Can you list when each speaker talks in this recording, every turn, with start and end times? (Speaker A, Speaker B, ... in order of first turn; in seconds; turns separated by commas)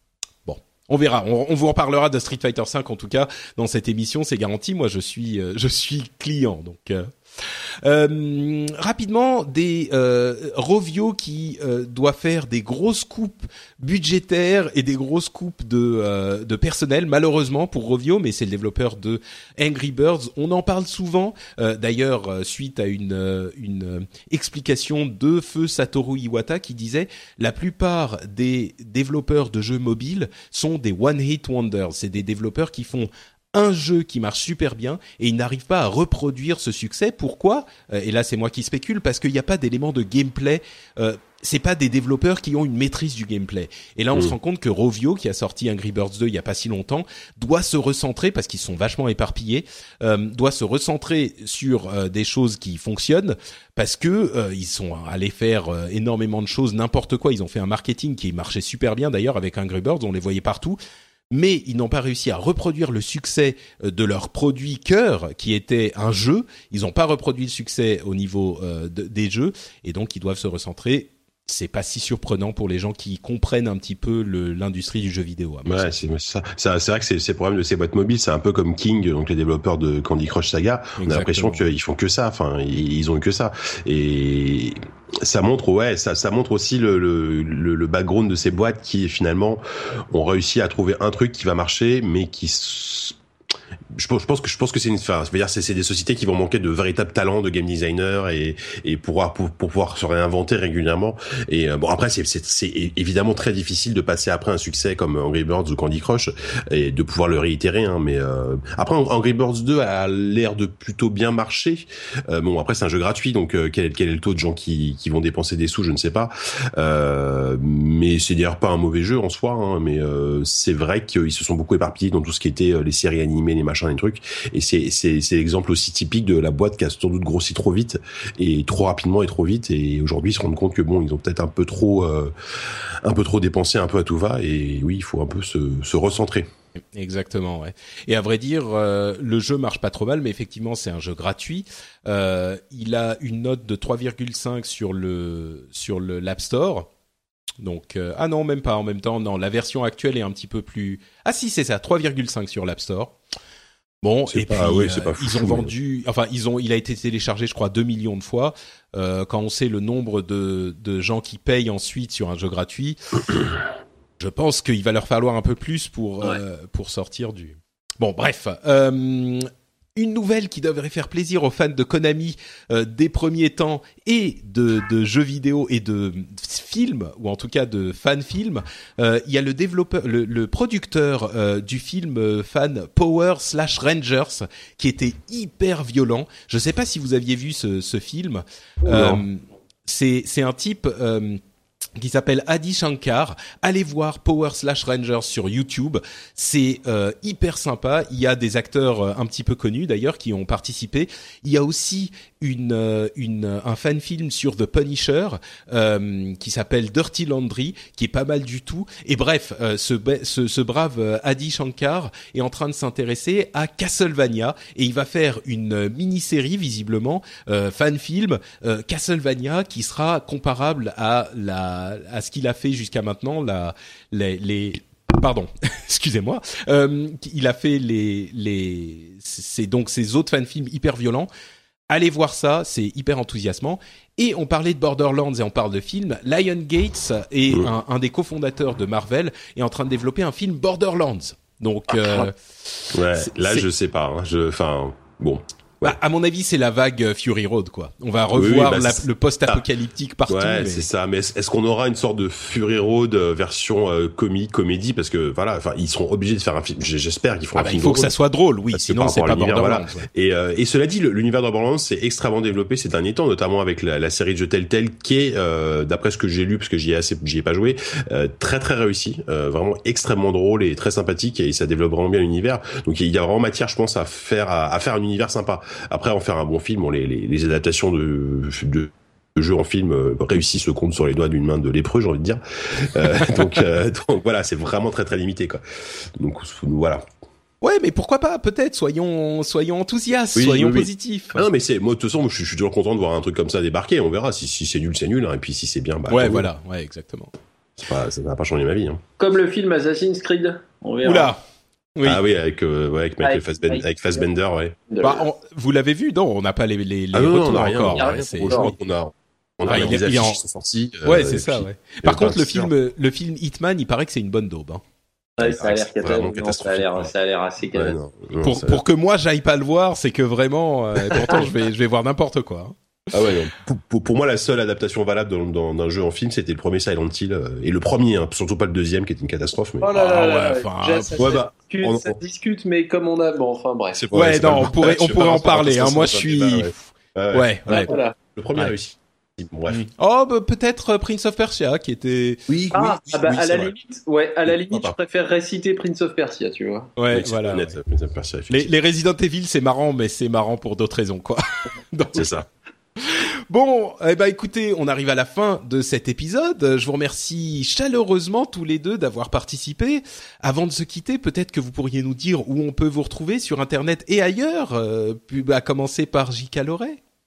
Speaker A: 0.5-60.8, Speaker A: 61.3-75.9, Speaker B: 75.7-93.2, Speaker A: 81.0-81.6, Speaker B: 93.9-132.3, Speaker B: 133.0-136.5, Speaker A: 136.9-146.9, Speaker A: 147.6-153.2, Speaker A: 154.0-163.4, Speaker B: 154.3-155.7, Speaker A: 164.2-191.4, Speaker B: 188.8-189.2, Speaker A: 192.0-231.3, Speaker A: 231.9-243.6, Speaker B: 242.9-246.0, Speaker A: 245.8-250.9, Speaker B: 248.3-249.6, Speaker B: 250.3-258.1, Speaker A: 257.6-260.1, Speaker B: 258.7-285.6, Speaker B: 286.1-287.1, Speaker A: 287.6-291.4, Speaker B: 290.3-296.5, Speaker A: 296.1-297.3, Speaker B: 297.8-299.0, Speaker C: 299.2-301.3, Speaker A: 301.0-301.4, Speaker A: 302.0-302.2, Speaker B: 302.0-304.8, Speaker C: 303.2-303.9, Speaker C: 304.9-305.2, Speaker A: 305.0-308.7, Speaker B: 307.1-312.7, Speaker C: 308.0-308.7, Speaker A: 309.6-310.4, Speaker A: 311.0-314.8, Speaker C: 315.4-317.9, Speaker B: 315.4-317.1, Speaker B: 317.7-318.8, Speaker A: 318.4-322.7, Speaker B: 321.1-321.4, Speaker B: 323.1-329.9, Speaker C: 329.8-334.0, Speaker A: 329.9-331.4, Speaker B: 331.2-332.2, Speaker B: 333.9-339.8, Speaker A: 334.1-337.9, Speaker C: 337.7-338.1, Speaker A: 339.7-342.4, Speaker B: 342.5-343.7, Speaker C: 342.7-346.9, Speaker B: 344.4-344.9, Speaker A: 347.0-347.8, Speaker B: 347.1-348.7, Speaker A: 348.5-352.3, Speaker B: 352.1-352.5, Speaker A: 353.0-367.0